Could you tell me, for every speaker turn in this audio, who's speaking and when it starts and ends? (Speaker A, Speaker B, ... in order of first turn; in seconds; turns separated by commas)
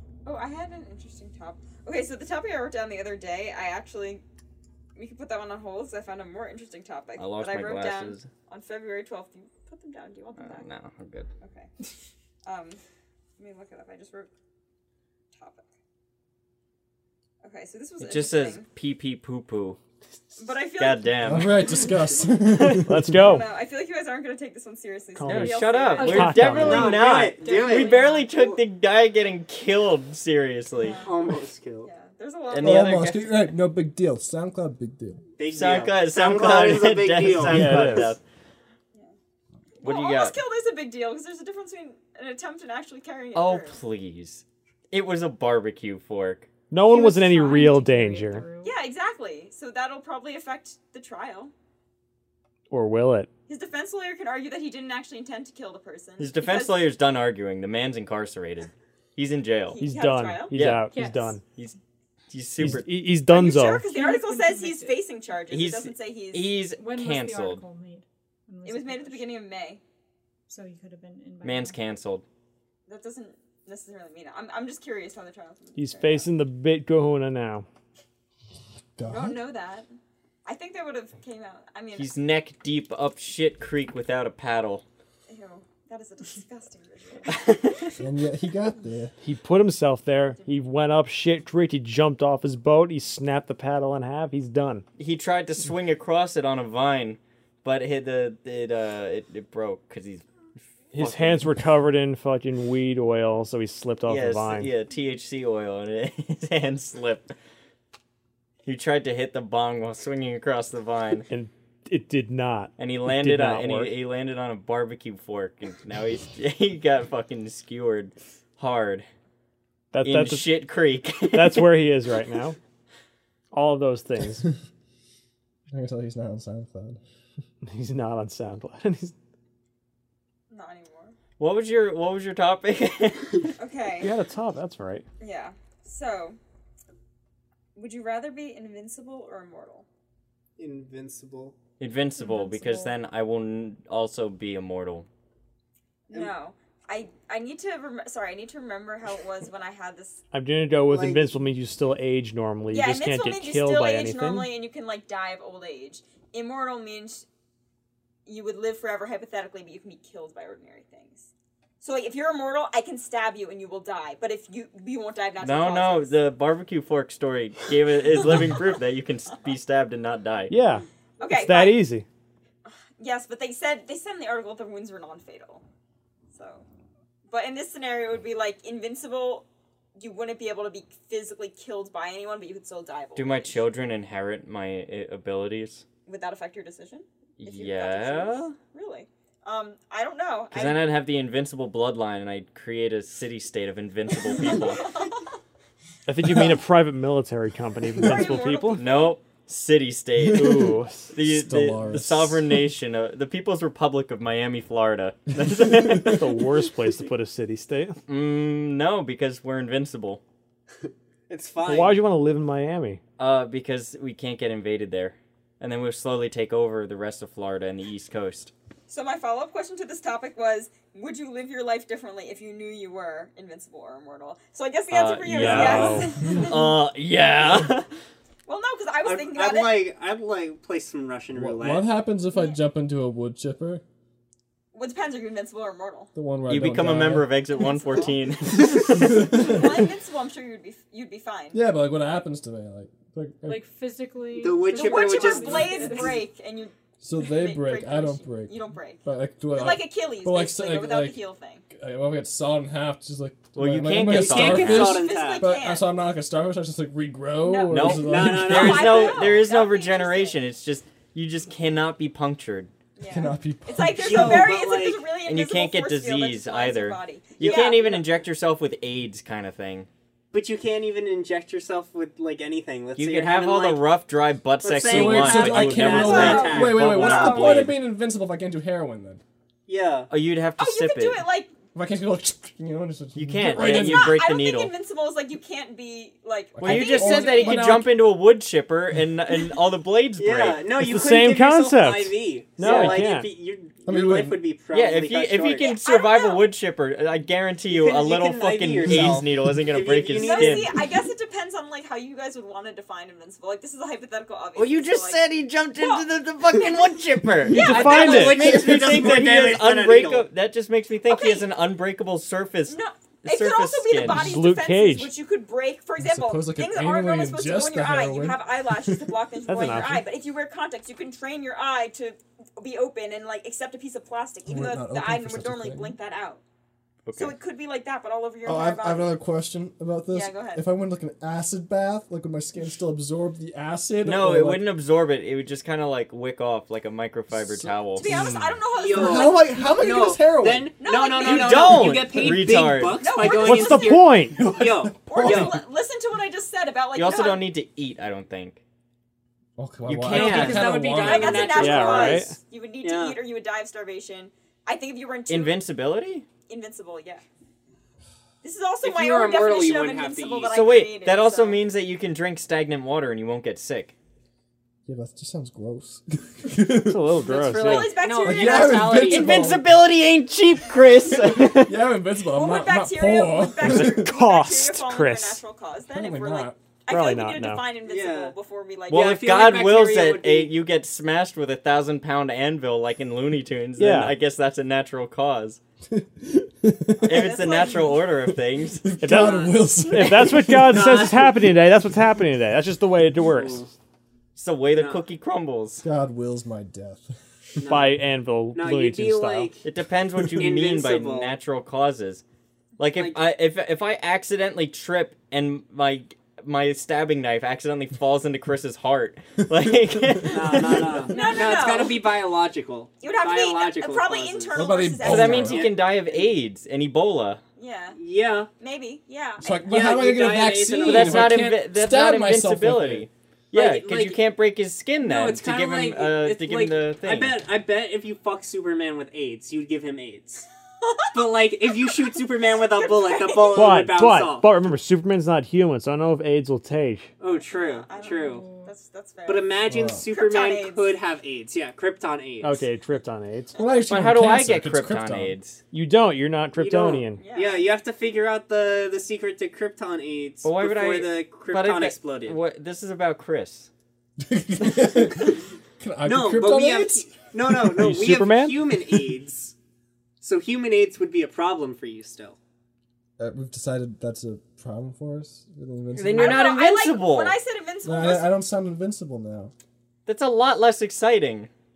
Speaker A: 0.2-4.2, Speaker A: 5.0-10.7, Speaker B: 7.2-8.3, Speaker B: 10.4-11.3, Speaker A: 11.4-11.7, Speaker A: 12.4-12.8, Speaker A: 13.4-14.3, Speaker A: 15.3-15.7, Speaker A: 17.4-18.7, Speaker B: 18.0-19.8, Speaker A: 20.4-21.4, Speaker B: 20.8-21.6, Speaker C: 21.2-23.4, Speaker D: 22.8-23.5, Speaker A: 23.1-28.3, Speaker D: 25.2-26.9, Speaker B: 25.3-31.0, Speaker E: 26.0-27.0, Speaker F: 26.4-28.6, Speaker A: 30.8-32.9, Speaker F: 31.0-31.9, Speaker B: 32.5-33.5, Speaker C: 32.6-35.2, Speaker F: 35.4-38.1, Speaker B: 35.5-38.2, Speaker D: 37.3-38.2, Speaker A: 39.8-43.8, Speaker B: 39.8-40.4, Speaker B: 43.4-46.5, Speaker D: 46.7-48.5, Speaker E: 46.9-48.8, Speaker A: 48.6-51.5, Speaker D: 52.7-53.3, Speaker A: 53.5-56.8, Speaker B: 56.2-59.8, Speaker A: 59.7-60.6, Speaker D: 59.8-61.4, Speaker B: 60.5-60.9, Speaker E: 60.9-61.4, Speaker B: 61.5-61.8, Speaker B: 62.3-62.9, Speaker D: 62.6-63.9, Speaker A: 63.3-66.5, Speaker E: 63.8-65.0, Speaker B: 65.5-67.6, Speaker E: 66.8-69.3, Speaker A: 68.7-69.8, Speaker E: 70.5-71.8, Speaker B: 71.4-72.2, Speaker A: 72.9-76.3, Speaker D: 75.8-77.7, Speaker C: 79.0-79.4, Speaker A: 79.1-79.9, Speaker A: 80.5-82.1, Speaker B: 82.0-84.8, Speaker A: 85.3-87.6, Speaker B: 87.3-87.9, Speaker C: 88.0-89.1, Speaker D: 89.2-94.8, Speaker B: 95.0-100.2, Speaker D: 100.9-104.7, Speaker B: 100.9-101.5, Speaker B: 104.1-107.3, Speaker B: 108.7-111.2, Speaker D: 111.3-113.9, Speaker B: 112.8-119.1, Speaker D: 119.9-120.5, Speaker B: 120.0-121.7, Speaker D: 121.3-122.6, Speaker D: 123.5-124.5, Speaker C: 125.7-127.0, Speaker D: 127.7-129.2, Speaker A: 130.5-131.2, Speaker B: 131.4-133.5, Speaker A: 133.6-134.1, Speaker D: 134.0-135.1, Speaker A: 135.2-136.4, Speaker A: 137.8-139.9, Speaker F: 140.6-141.6, Speaker B: 141.8-145.1, Speaker E: 142.2-142.9, Speaker A: 146.1-150.2, Speaker D: 150.3-154.5, Speaker A: 150.9-151.3, Speaker A: 152.7-157.3, Speaker A: 158.3-161.3, Speaker A: 161.8-166.1, Speaker B: 165.4-170.5, Speaker D: 170.5-172.1, Speaker A: 171.2-171.8, Speaker A: 172.7-175.6, Speaker A: 176.3-176.7, Speaker A: 177.3-183.6, Speaker B: 183.2-185.8, Speaker A: 186.1-190.9, Speaker B: 187.4-188.6, Speaker B: 190.5-194.8, Speaker A: 194.3-195.1, Speaker D: 196.1-198.9, Speaker A: 198.0-199.1, Speaker B: 198.8-206.2, Speaker D: 200.3-201.1, Speaker C: 200.3-202.6, Speaker C: 205.5-206.2, Speaker D: 206.1-208.0, Speaker B: 208.1-210.2, Speaker F: 211.3-212.1, Speaker D: 211.6-213.0, Speaker B: 213.2-218.5, Speaker A: 218.9-226.7, Speaker B: 224.9-227.9, Speaker D: 225.3-226.1, Speaker C: 226.2-226.6, Speaker A: 228.5-229.9, Speaker F: 229.0-231.9, Speaker C: 231.3-233.8, Speaker A: 234.7-236.1, Speaker C: 236.2-237.3, Speaker B: 236.5-239.7, Speaker A: 237.5-241.6, Speaker C: 238.5-239.8, Speaker C: 241.5-243.6, Speaker E: 243.4-246.2, Speaker F: 244.4-246.2, Speaker A: 244.7-251.6, Speaker C: 247.0-258.8, Speaker B: 253.6-255.1, Speaker F: 254.0-255.5, Speaker A: 254.7-255.9, Speaker A: 257.4-260.4, Speaker B: 257.7-262.7, Speaker F: 257.9-259.4, Speaker A: 263.0-268.0, Speaker C: 263.1-264.5, Speaker F: 264.0-265.1, Speaker B: 265.2-269.9, Speaker F: 267.4-268.0, Speaker F: 270.3-273.9, Speaker B: 273.0-277.8, Speaker F: 274.6-276.9, Speaker C: 274.8-279.2, Speaker A: 276.0-277.6, Speaker F: 279.7-280.1, Speaker B: 280.1-281.2, Speaker A: 280.6-281.5, Speaker C: 281.8-284.2, Speaker B: 283.1-284.7, Speaker A: 283.5-287.7, Speaker C: 286.6-288.0, Speaker B: 286.6-290.6, Speaker F: 290.2-295.7, Speaker D: 290.8-293.3, Speaker B: 292.6-293.0, Speaker C: 293.9-294.4, Speaker B: 294.7-300.8, Speaker A: 295.5-296.5, Speaker F: 297.7-300.7, Speaker C: 298.9-299.5, Speaker A: 300.1-305.2, Speaker B: 304.6-314.4, Speaker A: 305.8-307.9, Speaker F: 307.5-310.3, Speaker D: 307.5-308.6, Speaker A: 311.1-311.5, Speaker A: 312.7-326.4, Speaker D: 314.1-315.1, Speaker C: 316.0-319.2, Speaker D: 319.5-320.1, Speaker C: 324.5-326.0, Speaker B: 327.1-327.4, Speaker A: 327.1-329.1, Speaker C: 328.4-334.6, Speaker A: 330.1-330.6, Speaker B: 334.0-338.1, Speaker C: 337.3-340.7, Speaker A: 338.0-339.4, Speaker F: 338.8-345.6, Speaker A: 340.8-342.1, Speaker B: 341.2-343.2, Speaker A: 343.0-344.0, Speaker D: 343.2-344.5, Speaker C: 344.3-345.6, Speaker A: 345.1-347.5, Speaker B: 346.9-348.6, Speaker C: 349.6-351.8, Speaker B: 349.9-350.8, Speaker F: 350.1-352.3, Speaker A: 350.9-355.6, Speaker D: 351.5-352.4, Speaker F: 352.8-353.2, Speaker B: 355.3-356.3, Speaker A: 356.5-357.2, Speaker A: 358.4-361.6, Speaker F: 358.8-360.6, Speaker B: 360.5-363.9, Speaker C: 364.9-367.2, Speaker D: 366.9-368.0, Speaker F: 367.2-369.5, Speaker A: 367.6-369.1, Speaker C: 368.2-369.6, Speaker B: 368.9-371.8, Speaker C: 371.1-374.1, Speaker A: 372.3-379.3, Speaker D: 373.6-375.4, Speaker C: 375.9-376.6, Speaker D: 376.9-377.6, Speaker F: 377.9-378.4, Speaker F: 378.9-380.5, Speaker B: 378.9-385.6, Speaker D: 383.8-384.1, Speaker C: 385.9-387.5, Speaker A: 387.0-388.0, Speaker B: 387.0-388.9, Speaker C: 388.8-391.2, Speaker D: 389.0-393.7, Speaker F: 389.1-389.7, Speaker F: 390.6-391.5, Speaker F: 393.2-393.7, Speaker B: 394.4-395.8, Speaker F: 394.8-395.0, Speaker C: 395.8-397.6, Speaker F: 397.6-398.0, Speaker D: 397.7-399.5, Speaker F: 398.5-399.7, Speaker B: 399.6-402.2, Speaker C: 400.2-400.6, Speaker F: 400.4-401.4, Speaker B: 402.8-411.1, Speaker F: 402.9-403.2, Speaker C: 409.6-410.6, Speaker F: 410.3-416.4, Speaker A: 411.1-412.0, Speaker A: 413.0-415.6, Speaker C: 414.6-415.7, Speaker B: 415.0-417.4, Speaker A: 417.6-418.0, Speaker F: 418.0-418.5, Speaker A: 418.6-419.7, Speaker C: 419.4-423.1, Speaker F: 419.7-421.4, Speaker B: 420.8-427.4, Speaker F: 423.5-424.2, Speaker F: 425.0-430.5, Speaker A: 430.8-431.2, Speaker F: 431.1-434.5, Speaker A: 431.8-433.8, Speaker D: 433.5-437.1, Speaker F: 437.2-438.4, Speaker A: 437.5-440.9, Speaker E: 438.0-438.7, Speaker F: 439.3-442.7, Speaker C: 439.7-440.1, Speaker D: 442.4-443.6, Speaker C: 443.6-445.4, Speaker B: 443.9-445.6, Speaker D: 445.7-447.2, Speaker F: 446.6-452.4, Speaker A: 447.1-447.7, Speaker B: 450.4-453.7, Speaker C: 454.2-457.5, Speaker F: 456.1-459.6, Speaker D: 457.7-458.6, Speaker F: 460.2-462.4, Speaker C: 463.2-466.5, Speaker B: 466.0-467.4, Speaker A: 466.2-468.3, Speaker C: 467.8-469.5, Speaker B: 470.1-471.5